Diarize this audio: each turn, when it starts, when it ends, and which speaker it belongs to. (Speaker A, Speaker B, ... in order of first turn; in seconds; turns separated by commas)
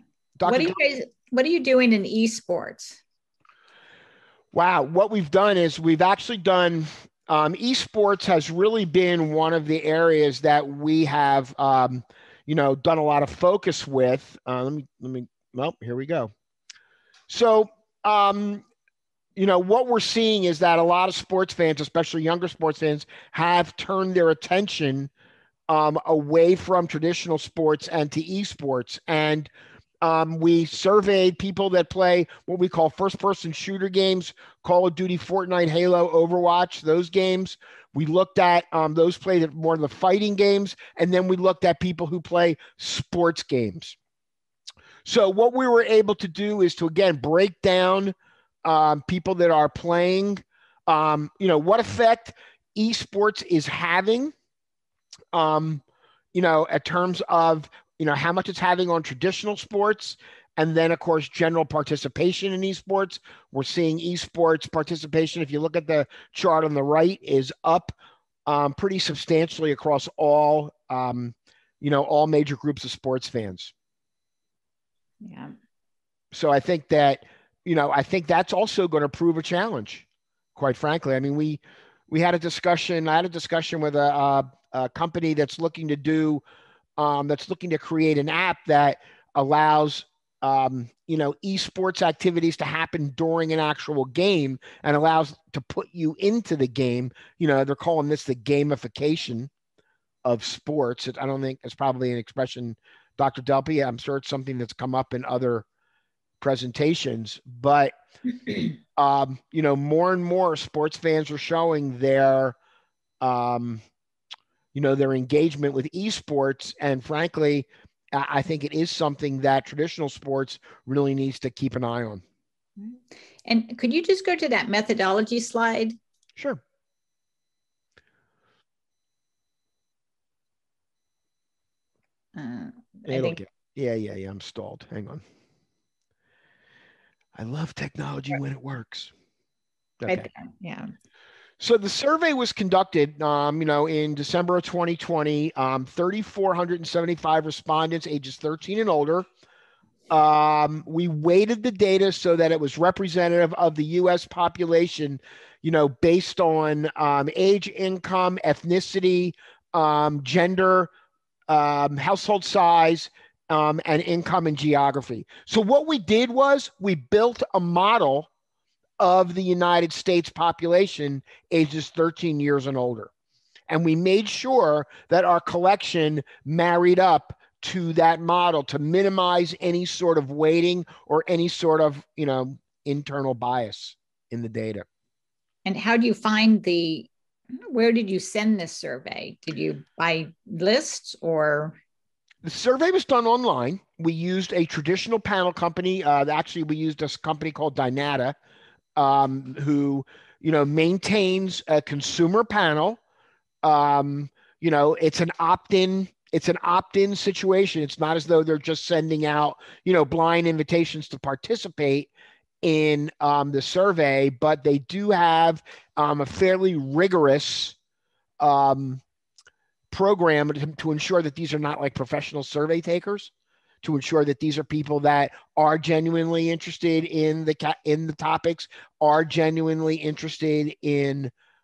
Speaker A: 0.4-0.8, Speaker B: 0.5-3.0, Speaker A: 4.5-16.3, Speaker A: 17.3-18.6, Speaker A: 19.4-25.1, Speaker A: 25.7-29.5, Speaker A: 30.0-44.0, Speaker A: 45.0-54.3, Speaker A: 55.3-55.8, Speaker A: 56.3-67.9, Speaker A: 68.5-73.7, Speaker B: 75.2-75.5, Speaker A: 76.3-80.0, Speaker A: 80.5-86.4, Speaker A: 87.0-99.5, Speaker A: 100.2-105.6, Speaker A: 106.4-107.9, Speaker A: 108.5-112.5, Speaker A: 113.2-113.8, Speaker A: 114.7-122.2, Speaker B: 122.8-126.0, Speaker B: 132.3-133.4, Speaker A: 133.1-135.2, Speaker A: 137.3-139.1, Speaker A: 140.0-140.3, Speaker B: 140.1-140.9, Speaker A: 141.6-149.3, Speaker A: 150.1-160.9, Speaker A: 161.5-168.3, Speaker A: 169.0-173.1, Speaker A: 173.7-184.8, Speaker B: 185.6-187.1, Speaker B: 187.7-191.8, Speaker A: 192.4-198.3, Speaker A: 198.9-203.0, Speaker A: 203.6-212.1, Speaker A: 212.6-217.7, Speaker A: 218.4-219.0, Speaker A: 219.9-223.3, Speaker A: 223.8-231.3